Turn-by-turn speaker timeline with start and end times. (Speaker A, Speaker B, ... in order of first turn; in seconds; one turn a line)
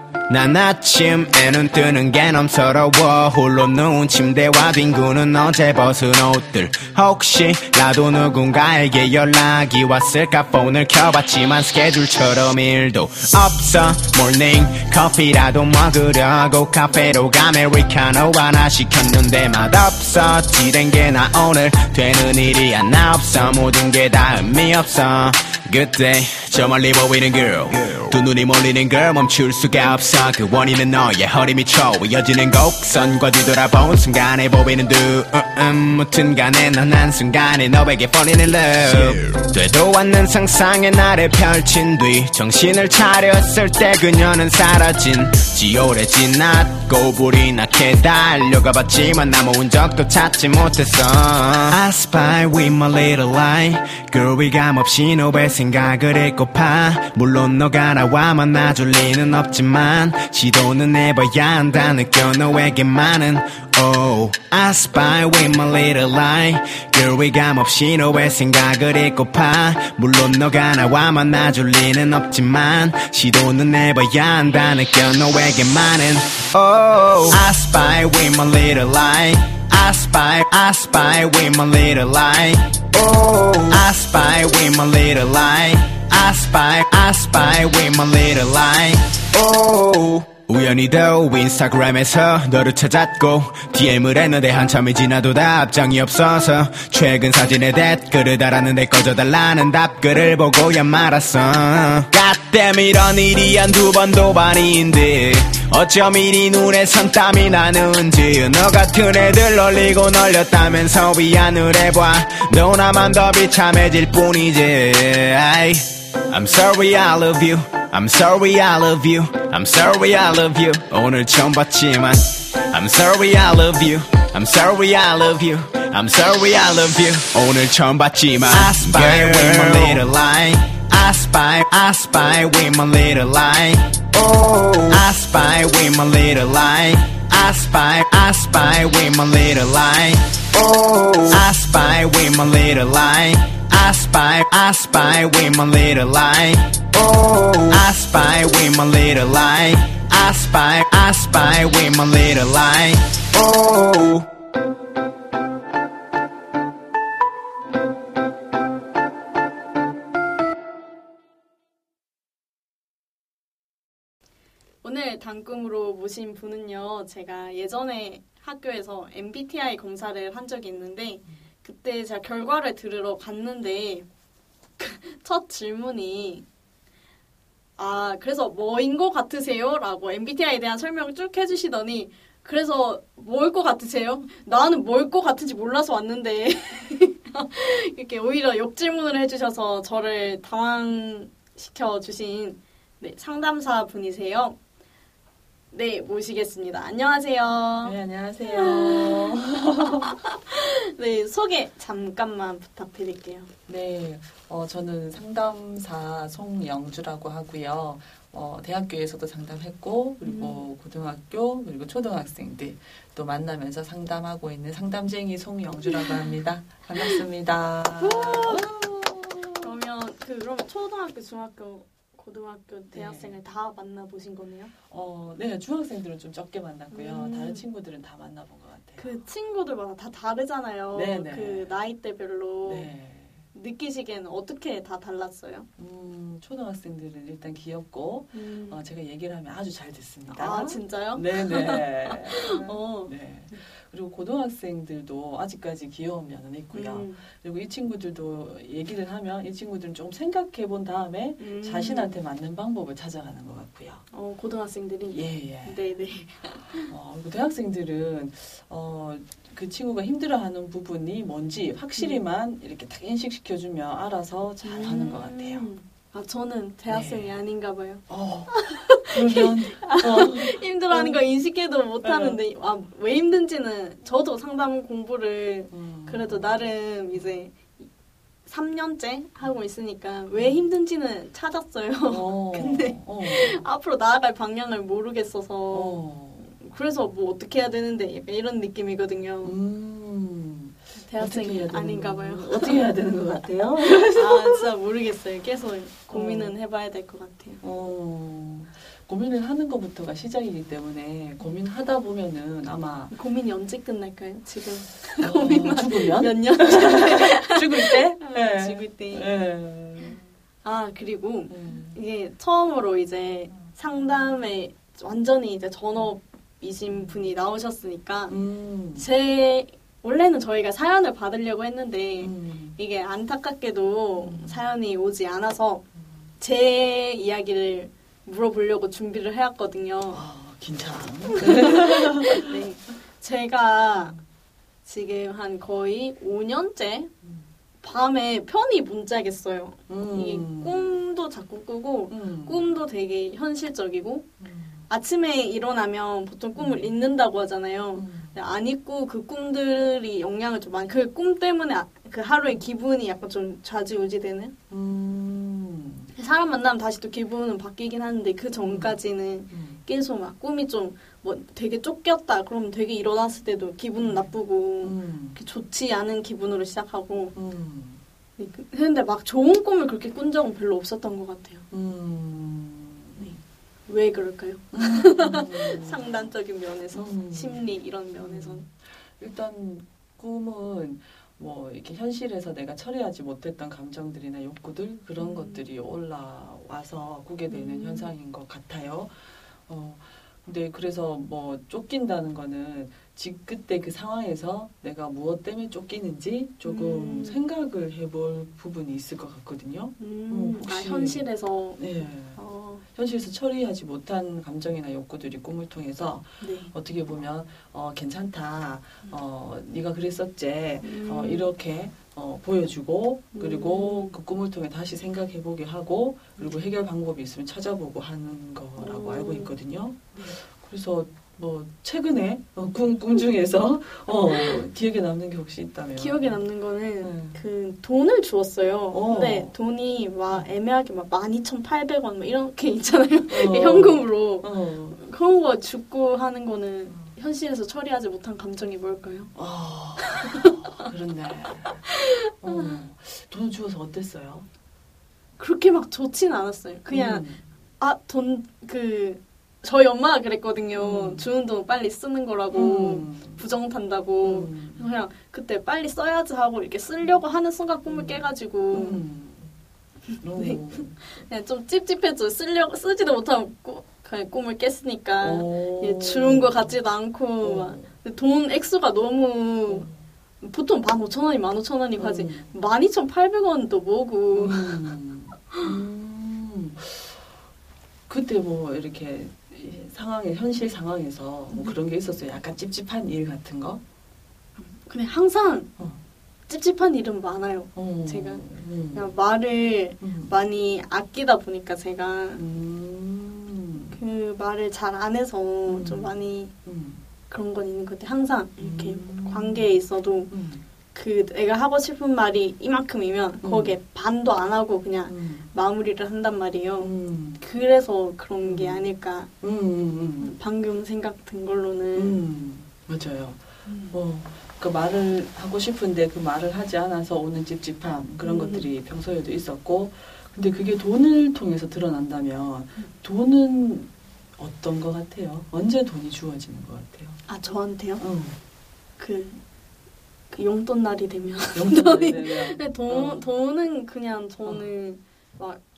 Speaker A: 0.3-82.7
Speaker A: 83.7-133.9
Speaker A: 134.9-140.3
Speaker A: 141.3-146.8
Speaker A: 147.7-154.2
Speaker B: 164.8-174.1
Speaker B: 174.8-176.4
Speaker B: 177.8-194.6
Speaker B: 195.7-198.0
Speaker C: 197.8-200.1
Speaker B: 198.5-203.5
Speaker C: 203.7-219.8
Speaker B: 210.2-210.6
Speaker B: 218.0-218.7
Speaker B: 219.6-224.7
Speaker C: 222.9-223.4
Speaker C: 224.9-229.1
Speaker B: 226.9-227.6
Speaker B: 229.0-232.9
Speaker C: 230.9-231.7
Speaker C: 232.6-233.4
Speaker B: 233.5-235.7
Speaker C: 235.8-254.0
Speaker B: 238.3-238.8
Speaker B: 240.3-243.6
Speaker B: 246.7-247.2
Speaker B: 251.4-252.2
Speaker B: 254.1-256.9
Speaker C: 255.1-255.8
Speaker C: 256.9-265.7
Speaker B: 264.6-277.9
Speaker C: 266.9-267.4
Speaker C: 268.1-271.2
Speaker C: 272.0-272.4
Speaker C: 275.7-277.3
Speaker B: 278.5-286.0
Speaker C: 280.4-280.7
Speaker C: 282.1-283.7
Speaker C: 285.7-286.6
Speaker B: 286.6-289.5
Speaker C: 289.4-294.6
Speaker B: 291.0-292.8
Speaker B: 293.9-297.6
Speaker C: 296.1-296.6
Speaker C: 297.6-303.1
Speaker B: 303.1-309.3
Speaker C: 305.2-310.2
Speaker B: 310.6-318.4
Speaker C: 311.5-312.0
Speaker C: 316.9-317.2
Speaker C: 318.3-319.1
Speaker B: 319.0-325.8
Speaker C: 322.2-322.8
Speaker C: 324.2-324.6
Speaker B: 326.4-330.2
Speaker C: 330.1-332.5
Speaker B: 331.3-334.2
Speaker B: 334.9-337.1
Speaker B: 337.8-344.3
Speaker C: 339.9-340.9
Speaker C: 342.1-342.7
Speaker C: 344.4-344.9
Speaker B: 344.9-354.5
Speaker C: 346.6-346.9
Speaker C: 347.9-348.4
Speaker C: 354.7-356.1
Speaker B: 356.1-367.3
Speaker C: 358.6-359.0
Speaker C: 359.5-359.8
Speaker C: 364.0-364.3
Speaker C: 364.8-365.4
Speaker C: 367.3-368.0
Speaker B: 368.4-371.6
Speaker C: 371.7-373.4
Speaker B: 373.9-378.6
Speaker C: 374.7-376.3
Speaker C: 376.9-377.6
Speaker C: 378.2-401.2
Speaker B: 385.2-385.6
Speaker B: 387.5-388.1
Speaker B: 396.6-397.4
Speaker B: 400.0-401.8
Speaker C: 401.8-402.4
Speaker B: 402.4-402.8
Speaker C: 402.9-426.4
Speaker B: 406.4-406.7
Speaker B: 410.8-411.5
Speaker B: 413.4-414.1
Speaker B: 418.8-419.5
Speaker B: 424.3-424.6
Speaker B: 426.0-434.5
Speaker C: 427.0-427.4
Speaker C: 428.9-429.5
Speaker C: 433.3-435.0
Speaker B: 435.0-439.3
Speaker C: 436.9-437.1
Speaker C: 439.4-441.9
Speaker B: 440.0-440.5
Speaker B: 442.1-442.7
Speaker C: 442.4-444.5
Speaker B: 445.4-447.2
Speaker C: 446.9-447.4
Speaker B: 447.8-459.0
Speaker C: 450.7-451.3
Speaker C: 452.5-453.4
Speaker C: 454.2-454.9
Speaker C: 457.9-459.5
Speaker C: 460.2-461.0
Speaker B: 460.4-460.6
Speaker B: 461.2-469.9
Speaker C: 465.2-466.8
Speaker C: 467.4-467.9
Speaker C: 469.7-470.0
Speaker B: 470.4-474.8
Speaker C: 472.0-472.5
Speaker C: 474.3-477.2
Speaker C: 478.1-483.8
Speaker B: 481.5-481.8
Speaker B: 484.6-485.7
Speaker B: 486.5-488.4
Speaker C: 487.8-489.1
Speaker B: 488.9-492.4
Speaker C: 490.0-490.3
Speaker C: 492.4-494.0
Speaker B: 493.9-496.5
Speaker C: 495.7-497.1
Speaker B: 497.3-500.3
Speaker C: 498.6-499.7
Speaker C: 500.3-500.6
Speaker B: 500.9-509.3
Speaker C: 503.4-503.8
Speaker C: 505.1-505.5
Speaker C: 506.8-507.4
Speaker C: 508.4-508.9
Speaker C: 509.4-510.4
Speaker B: 510.2-512.2
Speaker C: 511.9-527.2
Speaker B: 513.7-514.0
Speaker B: 518.2-518.6
Speaker B: 527.3-528.0
Speaker C: 528.0-528.4
Speaker B: 529.0-529.4
Speaker B: 530.3-535.6
Speaker C: 531.5-533.3
Speaker C: 534.4-534.7